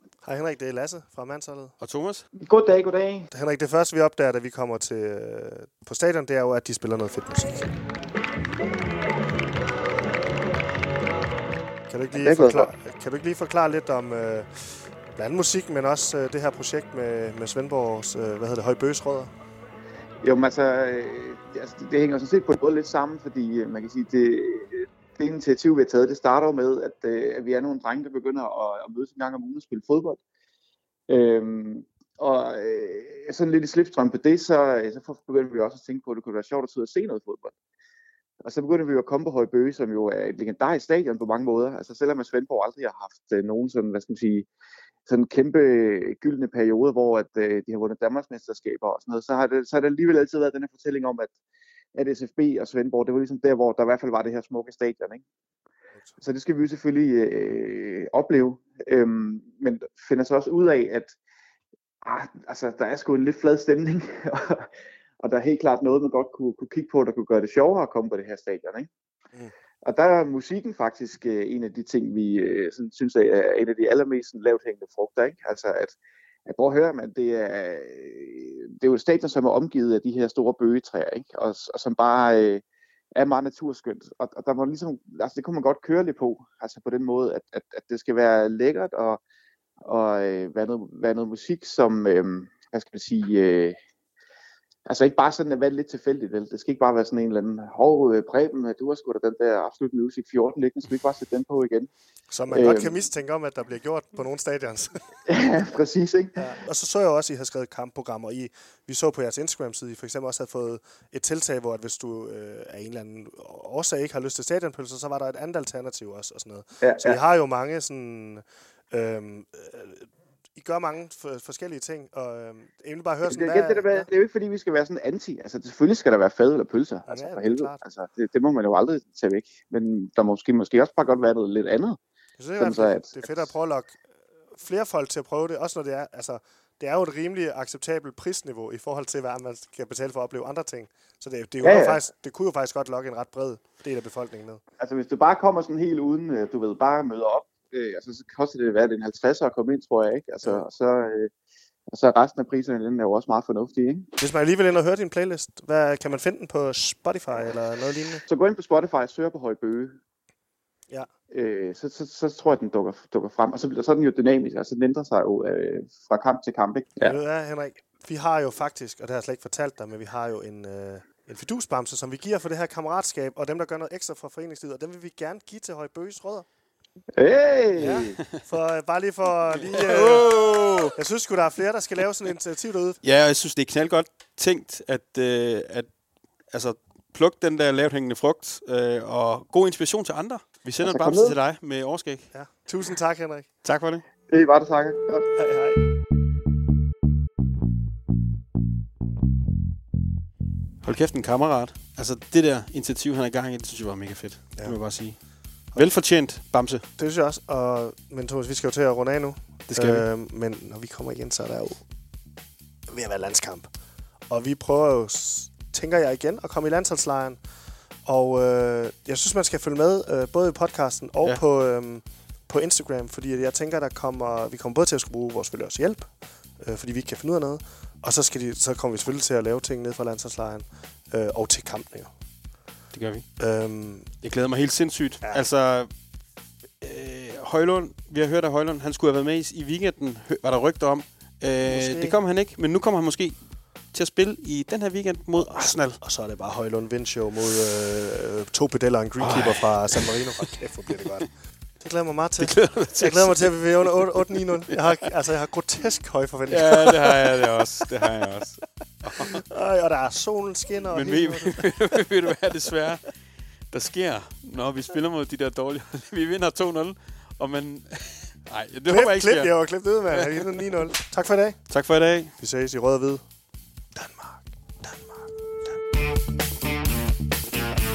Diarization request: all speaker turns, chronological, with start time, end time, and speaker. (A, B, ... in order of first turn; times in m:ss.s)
0:00.2-0:01.8 A
0:01.8-0:02.3 B
0:02.4-0:03.3 C
0:03.3-0:07.7 A
0:11.9-0:19.3 A
0:12.1-0:12.7 C
0:20.2-0:30.2 C
0:31.1-0:37.5 C
0:38.4-0:44.5 C
0:45.1-0:51.3 C
0:52.0-0:55.2 C
0:56.2-1:01.2 C
1:02.0-1:04.7 C
1:05.2-1:08.9 C
1:09.8-1:22.6 C
1:23.2-1:29.2 C
1:29.8-1:33.8 C
1:34.9-1:41.9 C
1:42.3-1:45.0 A
1:42.5-1:43.0 C
1:45.3-1:46.5 C
1:46.4-2:04.1 A
1:56.8-1:57.2 C
2:03.3-2:12.0 C
2:07.1-2:07.8 A
2:12.4-2:14.0 A
2:12.6-2:13.5 C
2:14.5-2:24.6 A
2:21.6-2:22.0 C
2:24.8-2:31.3 C
2:31.9-2:34.1 C
2:34.2-2:38.2 A
2:38.3-2:40.0 C
2:41.3-2:47.2 C
2:47.0-2:56.5 A
2:57.2-2:58.2 C
2:57.8-3:00.3 A
2:59.7-3:00.9 B
3:00.9-3:03.0 A
3:03.0-3:05.9 B
3:06.5-3:12.3 B
3:10.8-3:11.4 C
3:12.3-3:13.5 A
3:13.6-3:14.0 B
3:14.3-3:15.3 C
3:15.4-3:15.8 A
3:20.8-3:25.2 B
3:25.8-3:26.8 B
3:27.0-3:31.8 A
3:29.7-3:30.0 B
3:32.9-3:33.7 A
3:34.3-3:37.4 A
3:38.1-3:52.1 A
3:52.9-3:53.2 B
3:53.4-3:54.1 A
3:54.2-3:55.9 B
3:56.8-4:03.4 B
4:01.7-4:02.2 A
4:03.9-4:06.0 B
4:05.3-4:11.3 A
4:09.2-4:10.2 B
4:11.8-4:17.4 A
4:12.4-4:14.2 B
4:16.5-4:19.4 B
4:19.2-4:21.7 A
4:20.9-4:23.1 B
4:23.7-4:29.6 B
4:28.9-4:31.6 A
4:30.1-4:30.6 B
4:31.7-4:32.3 B
4:32.4-4:33.2 A
4:33.9-4:35.8 A